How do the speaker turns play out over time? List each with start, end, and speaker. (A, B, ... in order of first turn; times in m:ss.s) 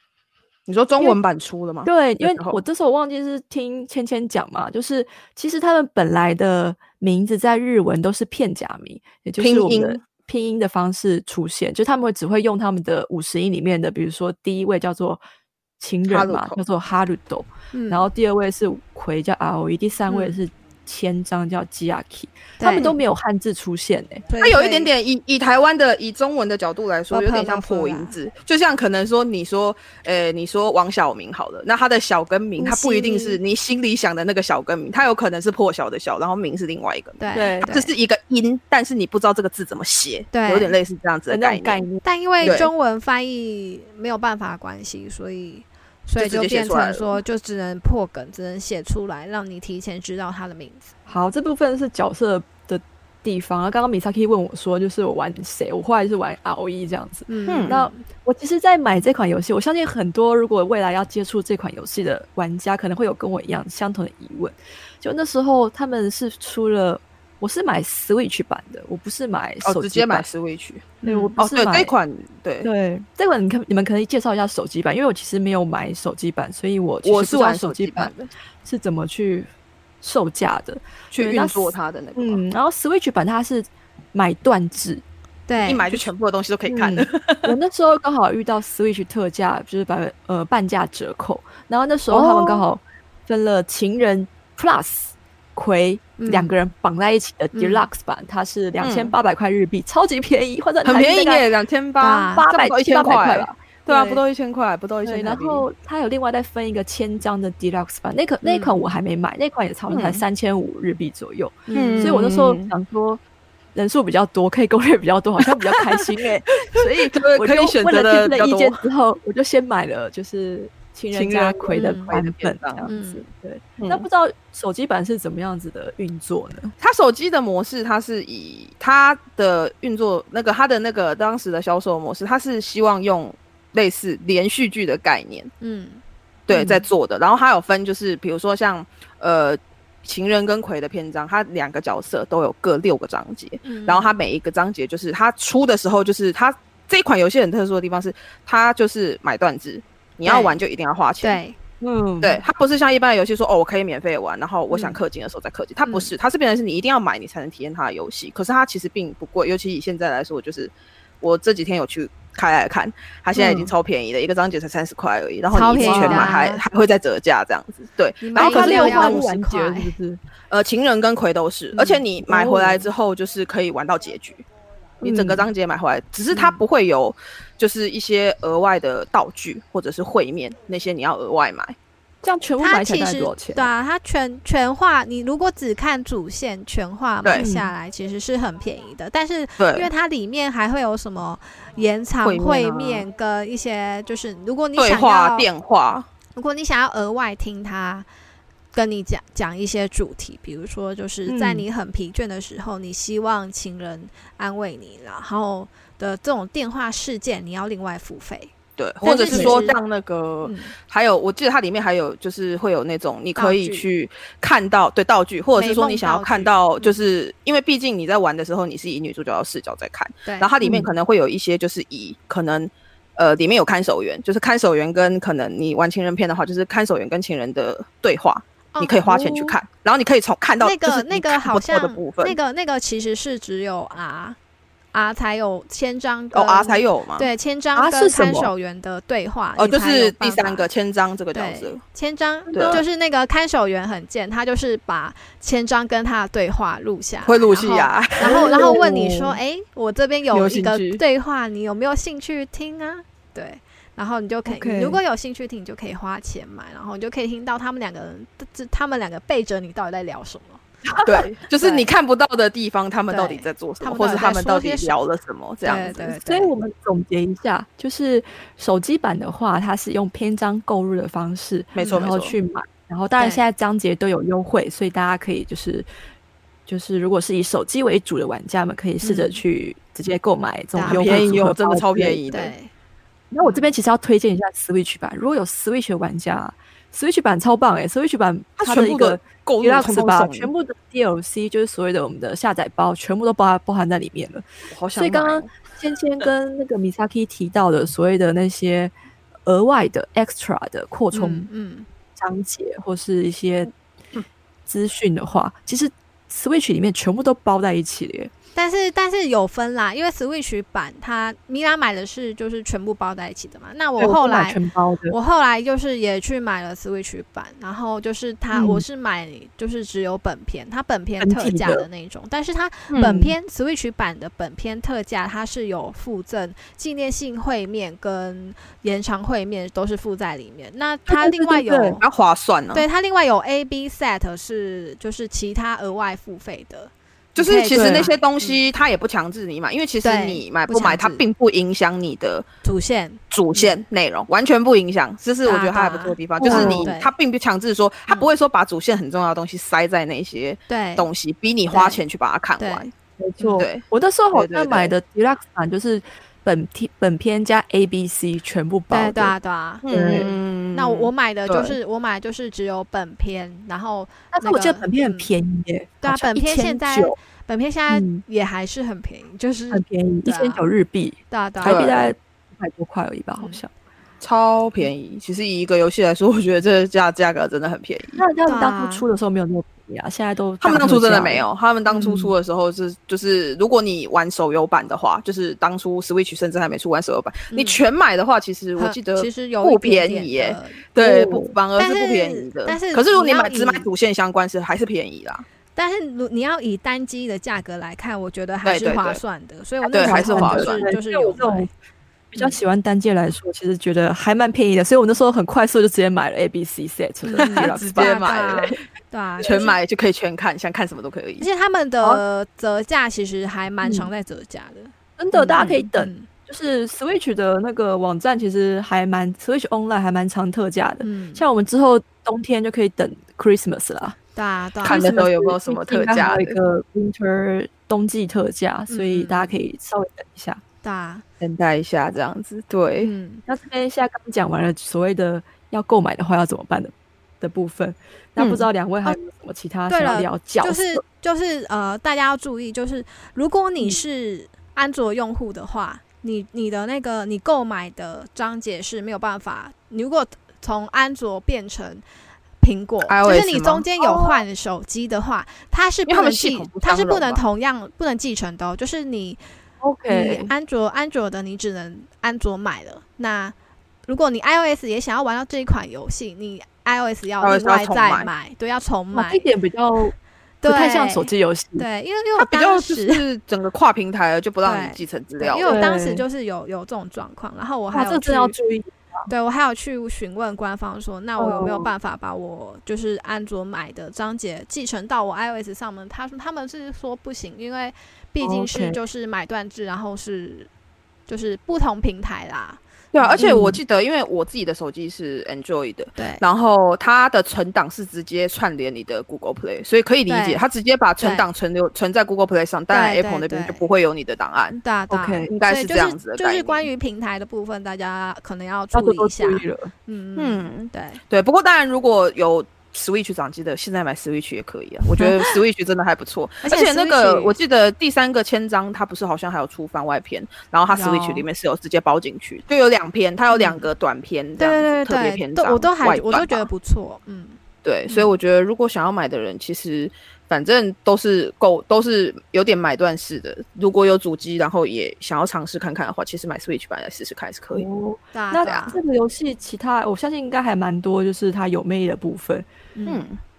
0:00.7-0:02.6 A
0:01.8-0:15.2 B
0:09.4-0:10.0 A
0:15.8-0:24.2 B
0:16.1-0:16.6 A
0:17.7-0:18.1 C
0:20.1-0:20.4 C
0:22.6-0:23.0 C
0:24.3-0:24.9 C
0:24.4-0:41.8 A
0:27.1-0:28.1 C
0:32.6-0:33.4 C
0:37.2-0:37.9 C
0:37.3-0:37.7 B
0:40.3-0:40.8 C
0:41.3-0:42.6 B
0:42.0-0:50.9 C
0:42.4-0:42.7 A
0:46.2-0:47.2 A
0:51.1-1:10.2 B
0:57.3-0:58.0 C
0:57.5-0:57.8 A
1:09.6-1:12.7 A
1:11.0-1:11.4 C
1:11.0-1:11.9 B
1:12.6-1:18.1 B
1:17.0-1:18.3 A
1:18.6-1:19.5 B
1:20.0-1:25.0 B
1:21.1-1:22.4 A
1:25.5-1:25.9 C
1:25.6-1:27.5 A
1:26.7-1:41.5 B
1:32.1-1:32.6 A
1:36.2-1:36.5 C
1:37.5-1:37.9 C
1:38.8-1:39.1 A
1:40.8-1:45.6 A
1:42.0-1:42.5 C
1:42.3-1:43.5 B
1:43.9-1:44.2 C
1:45.0-1:53.2 B
1:49.9-1:50.2 A
1:51.7-1:52.2 C
1:51.7-1:52.7 A
1:53.7-2:06.7 B
1:56.6-1:58.8 A
2:01.1-2:02.9 A
2:01.7-2:02.2 C
2:02.9-2:03.2 C
2:03.8-2:04.0 A
2:06.8-2:15.5 A
2:15.6-2:16.0 C
2:16.5-2:31.4 A
2:16.5-2:16.8 C
2:23.6-2:24.1 C
2:30.2-2:30.6 C
2:31.2-2:31.6 C
2:31.8-2:32.4 B
2:32.2-2:49.3 A
2:34.7-2:35.0 C
2:35.8-2:36.1 C
2:43.3-2:43.7 B
2:45.5-2:46.6 C
2:45.8-2:46.4 B
2:48.2-2:49.9 C
2:48.4-2:50.2 B
2:50.5-2:54.4 A
2:51.7-2:52.0 C
2:52.2-2:52.9 B
2:55.0-3:01.8 A
2:55.0-2:55.5 B
2:56.3-2:56.6 C
3:02.2-3:03.7 B
3:02.6-3:15.5 C
3:07.3-3:07.7 B
3:09.6-3:09.9 A
3:12.2-3:13.1 A
3:14.8-3:16.1 A
3:16.4-3:18.1 C
3:18.7-3:29.8 C
3:21.2-3:21.6 B
3:28.8-3:52.4 A
3:29.3-3:29.6 B
3:30.4-3:30.7 C
3:33.4-3:33.8 C
3:35.6-3:37.0 C
3:40.2-3:40.5 C
3:40.6-3:40.9 B
3:48.7-3:49.5 C
3:50.6-3:54.4 C
3:54.9-4:00.7 C
3:56.3-3:57.3 A
3:57.7-3:58.5 B
3:59.6-4:01.8 A
4:01.3-4:20.6 C
4:02.5-4:02.8 B
4:02.5-4:02.8 A
4:07.2-4:09.0 A
4:08.2-4:09.3 B
4:10.3-4:11.0 A
4:14.5-4:15.0 B
4:20.9-4:21.2 B
4:21.0-4:26.1 A
4:21.6-4:21.9 C
4:23.1-4:24.9 C
4:25.6-4:26.5 C
4:26.1-4:35.9 B
4:31.8-4:32.3 A
4:31.8-4:32.1 C
4:33.2-4:33.4 C
4:36.7-4:42.2 B
4:39.0-4:39.4 C
4:40.7-4:41.2 C
4:40.8-4:42.5 A
4:42.3-4:42.7 C
4:43.3-4:58.9 B
4:43.4-4:43.7 C
4:48.6-4:50.5 A
4:54.7-4:55.6 A
4:59.4-5:01.5 B
5:01.1-5:01.9 C
5:02.2-5:03.7 B
5:04.7-5:08.3 B
5:08.5-5:14.6 C
5:14.0-5:15.2 B
5:15.1-5:32.0 C
5:18.5-5:18.8 B
5:21.2-5:21.9 B
5:22.9-5:23.2 A
5:23.0-5:23.3 B
5:31.1-5:32.8 A
5:32.7-5:38.6 C
5:37.3-5:42.4 A
5:37.7-5:38.1 B
5:40.0-5:41.2 C
5:42.6-5:43.7 C
5:43.3-5:52.9 A
5:45.4-5:47.1 C
5:46.4-5:46.9 B
5:50.7-5:51.1 C
5:51.7-5:52.0 C
5:52.6-5:52.9 C
5:53.2-5:59.3 B
5:53.4-5:53.6 C
5:53.6-5:54.9 A
5:58.9-6:05.3 C
5:59.8-6:01.8 A
5:59.9-6:00.3 B
6:04.3-6:07.2 B
6:06.0-6:10.6 C
6:07.9-6:08.2 B
6:09.7-6:13.7 B
6:11.3-6:12.0 C
6:11.6-6:12.1 A
6:14.2-6:18.2 A
6:18.2-6:21.5 B
6:18.4-6:19.1 C
6:20.6-6:35.4 A
6:21.9-6:22.3 C
6:27.5-6:27.8 C
6:28.8-6:30.9 C
6:31.0-6:31.5 B
6:31.8-6:33.9 C
6:35.8-6:41.7 C
6:38.6-6:39.2 A
6:39.9-6:40.9 A
6:39.9-6:41.7 B
6:42.3-6:48.6 B
6:47.2-6:49.8 C
6:47.4-6:48.8 A
6:49.4-6:51.5 A
6:51.4-6:56.3 C
6:53.8-6:54.1 B
6:55.2-7:04.2 B
6:55.5-6:55.8 A
7:01.0-7:01.4 C
7:04.4-7:05.2 C
7:04.8-7:10.6 B
7:04.8-7:06.6 A
7:08.9-7:09.5 C
7:10.8-7:11.2 C
7:11.4-7:13.1 A
7:13.0-7:13.4 C
7:13.4-7:21.0 B
7:18.4-7:18.7 A
7:19.9-7:32.0 C
7:32.6-7:39.4 C
7:33.0-7:34.4 A
7:36.0-7:37.4 A
7:39.8-7:40.5 B
7:40.1-7:43.5 C
7:44.0-7:49.5 C
7:47.4-7:48.3 A
7:49.1-7:51.8 B
7:50.6-7:53.2 C
7:52.4-7:55.9 A
7:54.6-7:58.6 C
7:55.6-7:56.2 B
7:57.9-7:59.3 B
7:59.3-8:10.7 C
8:01.4-8:01.9 B
8:08.4-8:09.0 B
8:11.3-8:13.6 C
8:13.1-8:24.8 A
8:13.4-8:13.8 B
8:16.2-8:16.4 C
8:20.3-8:20.6 C
8:21.2-8:21.5 C
8:22.9-8:23.8 C
8:24.8-8:31.2 C
8:25.1-8:25.5 B
8:25.5-8:26.9 A
8:28.9-8:29.9 B
8:30.4-8:46.7 A
8:35.2-8:35.5 C
8:36.6-8:37.5 C
8:40.9-8:41.4 C
8:43.5-8:43.9 C
8:44.6-8:48.3 C
8:47.8-8:57.9 A
8:57.7-9:02.7 B
8:58.3-8:59.0 C
9:03.0-9:03.3 C
9:03.0-9:03.4 A